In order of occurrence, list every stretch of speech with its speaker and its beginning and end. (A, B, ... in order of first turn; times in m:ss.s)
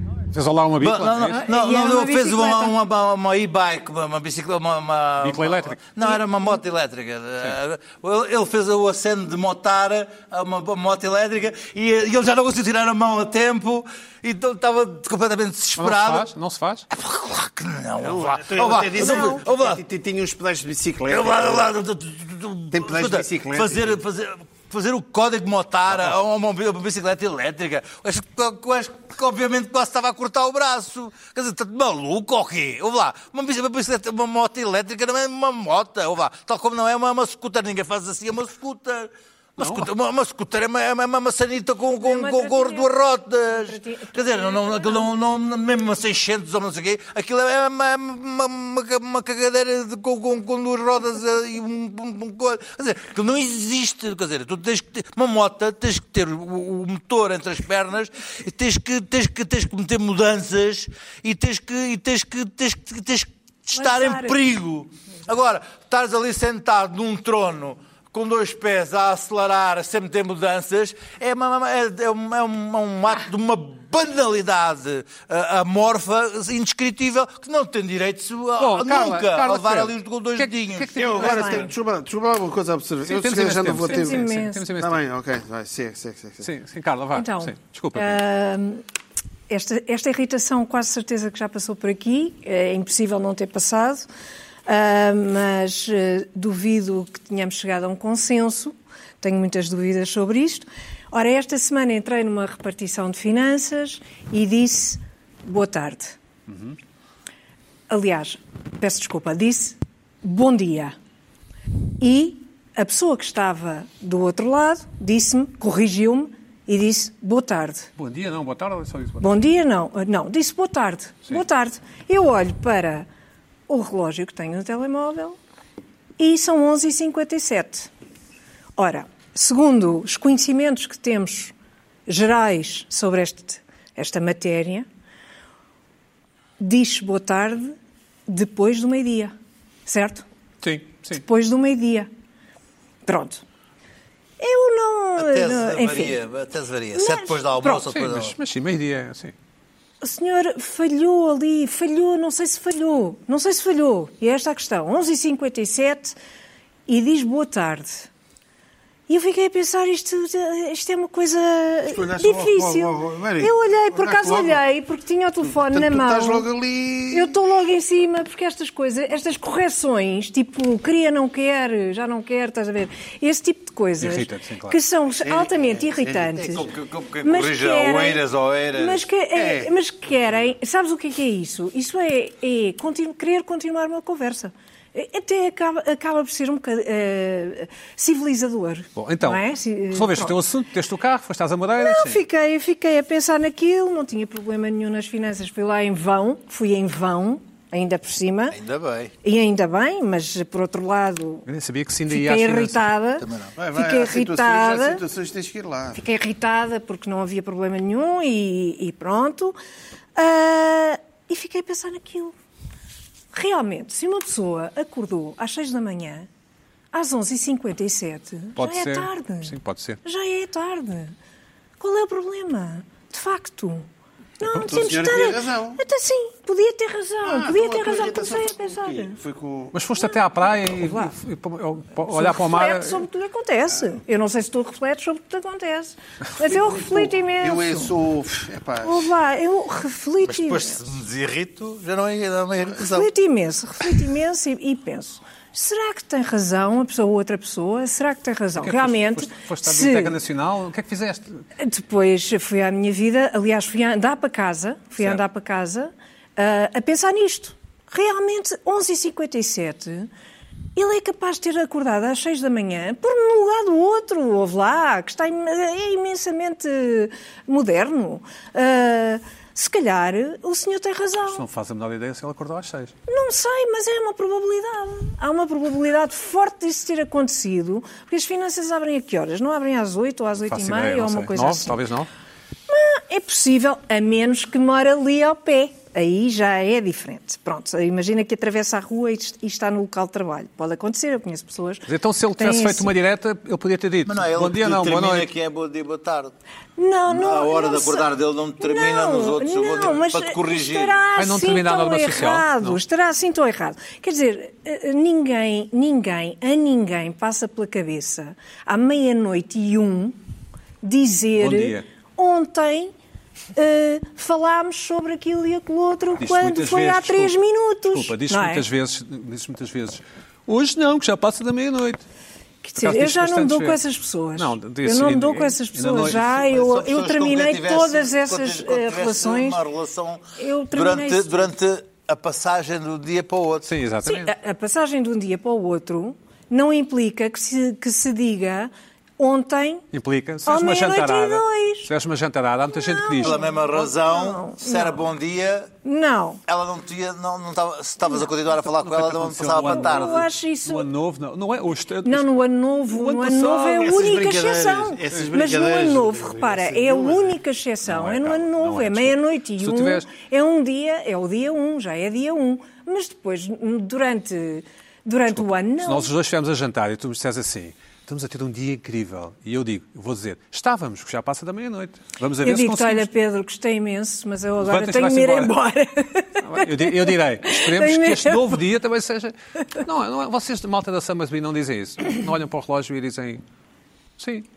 0:00.3-0:01.4 A
0:00.8-0:16.3 B
0:01.3-0:02.7 C
0:05.2-0:05.9 A
0:15.8-0:16.9 A
0:16.9-0:19.8 B
0:18.0-0:21.7 D
0:19.0-0:19.4 C
0:21.1-1:21.6 B
0:22.7-0:24.0 D
0:39.6-0:39.9 A
0:42.0-0:42.9 C
0:43.5-0:45.1 C
1:03.8-1:04.4 C
1:18.6-1:21.7 A
1:21.0-1:24.3 D
1:21.2-1:21.6 C
1:23.0-1:25.0 A
1:23.8-1:24.7 C
1:24.8-1:26.5 D
1:26.4-1:28.2 A
1:27.1-1:28.8 C
1:29.5-1:34.1 C
1:34.7-1:46.2 C
1:47.9-1:51.0 C
1:52.0-1:57.9 C
1:58.0-1:59.4 A
1:59.2-2:03.1 C
2:03.7-2:05.4 C
2:06.2-2:07.9 C
2:08.8-2:11.5 C
2:12.1-2:14.9 C
2:16.6-2:17.7 C
2:18.3-2:19.3 C
2:19.9-2:20.2 C
2:20.6-2:21.2 A
2:21.1-2:22.1 C
2:23.0-2:23.4 C
2:24.4-2:26.2 C
2:25.2-2:28.3 B
2:27.0-2:27.8 C
2:27.8-2:29.3 A
2:30.0-2:36.2 C
2:36.9-2:38.1 C
2:39.1-2:46.5 C
2:41.9-2:44.6 D
2:45.6-2:47.4 D
2:47.1-2:56.7 C
2:54.0-2:54.8 A
2:55.2-2:56.5 D
2:56.4-2:59.0 B
2:57.2-2:58.2 C
2:58.7-3:10.4 C
2:59.3-2:59.7 D
3:09.0-3:12.2 A
3:11.8-3:18.6 C
3:18.5-3:19.1 B
3:19.2-3:21.4 C
3:21.4-3:22.9 A
3:22.1-3:25.0 C
3:23.2-3:23.5 B
3:23.6-3:26.0 D
3:26.0-3:29.6 C
3:30.2-3:32.3 C
3:33.3-3:36.3 C
3:36.9-3:41.1 C
3:38.6-3:40.0 A
3:41.8-3:43.9 C
3:44.4-3:49.2 C
3:44.6-3:45.8 D
3:47.2-3:49.7 D
3:49.7-3:53.0 A
3:50.7-3:51.1 C
3:52.1-3:57.9 C
3:56.4-3:59.1 D
3:58.8-4:00.8 C
4:00.2-4:03.1 B
4:02.8-4:10.2 C
4:08.6-4:11.4 A
4:11.6-4:20.1 C
4:20.7-4:31.4 C
4:31.3-4:32.9 A
4:33.1-4:41.9 C
4:40.4-4:42.1 A
4:42.7-4:52.9 C
4:51.9-4:55.3 A
4:54.0-4:56.3 B
4:56.8-4:58.0 C
4:57.1-5:01.0 B
4:58.6-5:10.2 C
5:01.2-5:02.8 A
5:10.8-5:12.9 C
5:11.4-5:11.9 A
5:13.6-5:18.6 C
5:16.2-5:17.3 A
5:17.9-5:22.0 A
5:22.6-5:29.6 C
5:22.8-5:23.8 A
5:24.4-5:26.5 A
5:26.5-5:33.7 B
5:30.4-5:31.5 C
5:33.6-5:34.3 A
5:34.0-5:39.8 C
5:39.9-5:43.4 A
5:40.4-5:41.9 C
5:42.7-5:45.0 C
5:43.2-5:45.7 B
5:45.8-5:46.4 C
5:46.5-5:50.3 B
5:48.6-5:52.3 A
5:49.7-5:50.9 C
5:52.0-6:06.1 C
5:52.9-5:53.8 A
5:53.6-5:57.4 D
5:57.8-6:00.1 A
6:05.3-6:13.1 A
6:12.4-6:18.6 C
6:14.6-6:15.5 A
6:16.4-6:23.4 A
6:24.2-6:24.4 A